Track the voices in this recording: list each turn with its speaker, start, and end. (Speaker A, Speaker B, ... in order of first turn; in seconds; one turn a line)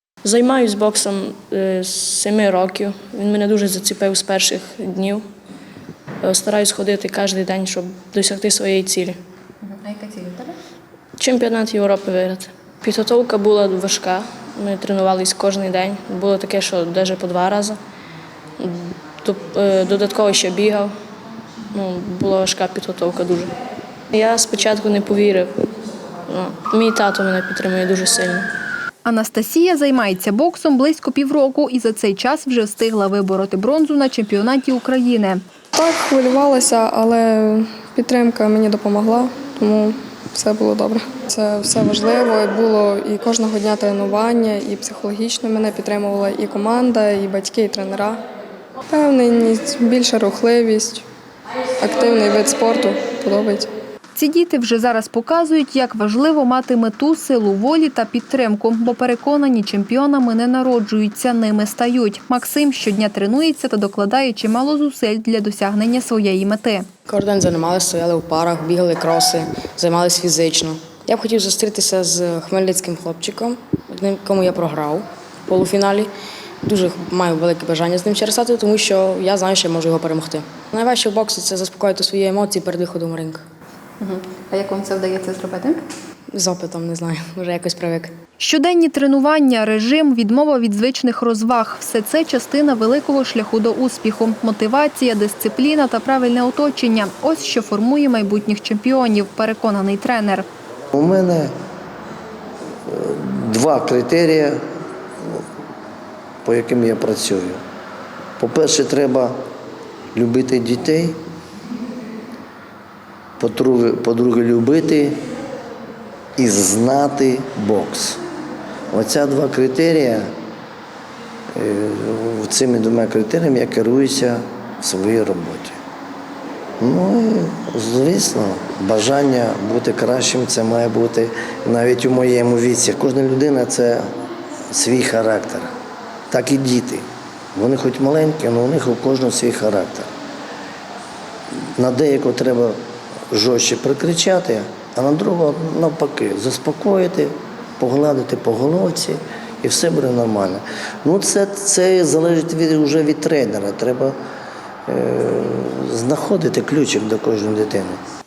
Speaker A: 0.2-5.2
Speaker A: 6.2-9.2
Speaker B: 9.6-10.5
Speaker A: 11.2-17.8
Speaker A: 18.6-20.9
Speaker A: 21.7-23.5
Speaker A: 24.1-25.7
Speaker A: 26.3-28.5
Speaker B: 29.0-35.4
Speaker C: 35.8-48.2
Speaker C: 48.9-51.0
Speaker C: 51.8-53.7
Speaker B: 54.1-66.9
Speaker D: 67.1-76.1
Speaker D: 76.7-83.4
Speaker B: 84.0-85.8
Speaker D: 86.4-88.1
Speaker B: 88.4-100.5
Speaker E: 100.9-101.5
Speaker E: 102.9-104.6
Speaker E: 106.4-107.6
Speaker E: 108.4-109.4
Speaker E: 110.1-111.2
Speaker E: 113.4-115.2
Speaker E: 116.4-118.2
Speaker E: 118.9-120.3
Speaker E: 121.5-125.8
Speaker E: 126.8-134.2
Speaker E: 134.7-135.7
Speaker E: 136.3-140.1
Speaker E: 141.6-142.8
Speaker E: 143.3-154.2
Speaker E: 154.9-158.0